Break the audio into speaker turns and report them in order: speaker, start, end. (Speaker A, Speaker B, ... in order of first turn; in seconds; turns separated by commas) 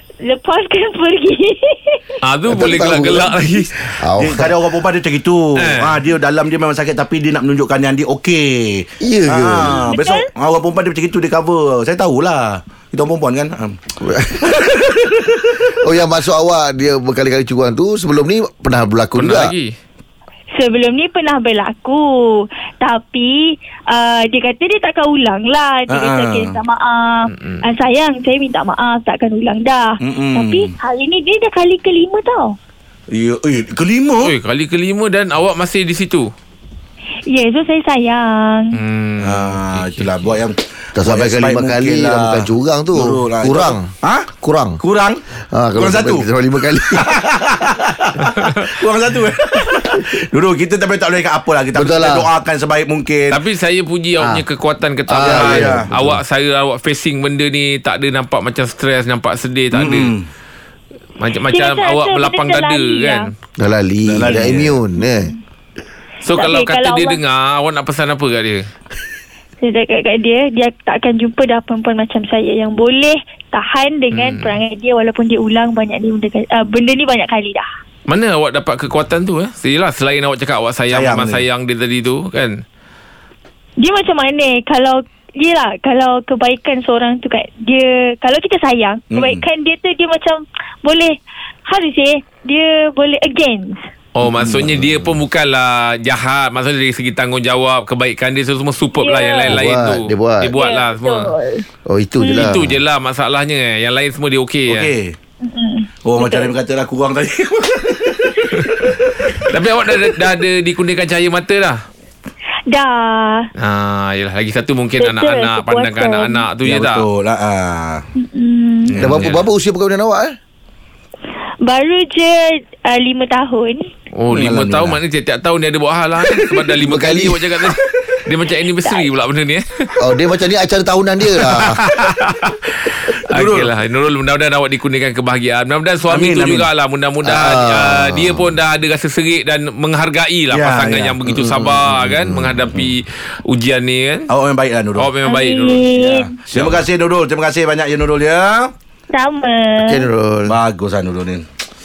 Speaker A: 0.2-2.1, Speaker B: 2.2-3.9, Speaker C: 2.5-4.5, Speaker D: 4.2-13.8, Speaker B: 5.6-6.0, Speaker C: 9.0-9.9, Speaker A: 9.7-10.3, Speaker C: 14.0-14.8, Speaker C: 15.7-19.5, Speaker B: 19.2-19.8, Speaker A: 20.6-32.6, Speaker D: 25.9-26.6, Speaker B: 27.3-27.6, Speaker D: 30.0-30.7, Speaker D: 33.1-34.3, Speaker B: 34.2-36.3, Speaker A: 37.3-38.8, Speaker B: 38.7-40.3, Speaker D: 39.2-44.3, Speaker C: 41.0-44.8, Speaker D: 44.8-45.2, Speaker C: 45.5-47.1, Speaker D: 45.8-46.3, Speaker D: 47.0-53.4, Speaker B: 48.4-48.7, Speaker C: 51.7-52.3, Speaker B: 53.3-60.1, Speaker C: 54.2-54.4, Speaker C: 55.1-56.2, Speaker D: 55.2-55.9, Speaker D: 59.7-60.3, Speaker B: 61.2-63.3, Speaker A: 61.5-63.3, Speaker C: 63.6-65.3, Speaker D: 64.0-64.8, Speaker A: 65.0-65.3, Speaker B: 66.2-68.7, Speaker A: 66.3-67.2, Speaker A: 69.6-77.7, Speaker B: 74.1-74.6, Speaker B: 78.1-82.6, Speaker D: 80.9-81.4, Speaker A: 83.8-93.8, Speaker D: 89.1-89.5, Speaker B: 94.2-101.3, Speaker C: 94.4-95.2, Speaker A: 98.9-99.6, Speaker C: 99.5-100.6, Speaker A: 100.5-101.7, Speaker C: 101.9-102.8, Speaker A: 102.2-102.5, Speaker B: 102.3-104.9, Speaker D: 104.7-105.2, Speaker A: 105.4-106.5, Speaker D: 106.0-109.3, Speaker B: 109.3-111.8, Speaker A: 112.7-113.5, Speaker B: 113.6-117.1, Speaker A: 115.0-116.4, Speaker D: 116.7-118.0, Speaker A: 118.2-118.9, Speaker B: 118.9-119.4, Speaker C: 119.0-120.4, Speaker A: 121.6-123.9, Speaker B: 124.2-129.9, Speaker D: 124.3-125.0, Speaker D: 126.4-126.6, Speaker C: 126.8-127.5, Speaker C: 130.0-131.8, Speaker B: 132.3-144.3, Speaker D: 133.3-133.7, Speaker D: 136.1-136.7, Speaker C: 137.2-138.6, Speaker D: 140.5-141.2, Speaker C: 141.3-142.8, Speaker D: 144.3-145.1, Speaker B: 145.0-145.9, Speaker A: 145.3-146.3, Speaker D: 146.0-148.7, Speaker B: 146.5-146.8, Speaker A: 149.1-150.1, Speaker C: 149.8-150.6, Speaker D: 150.5-151.4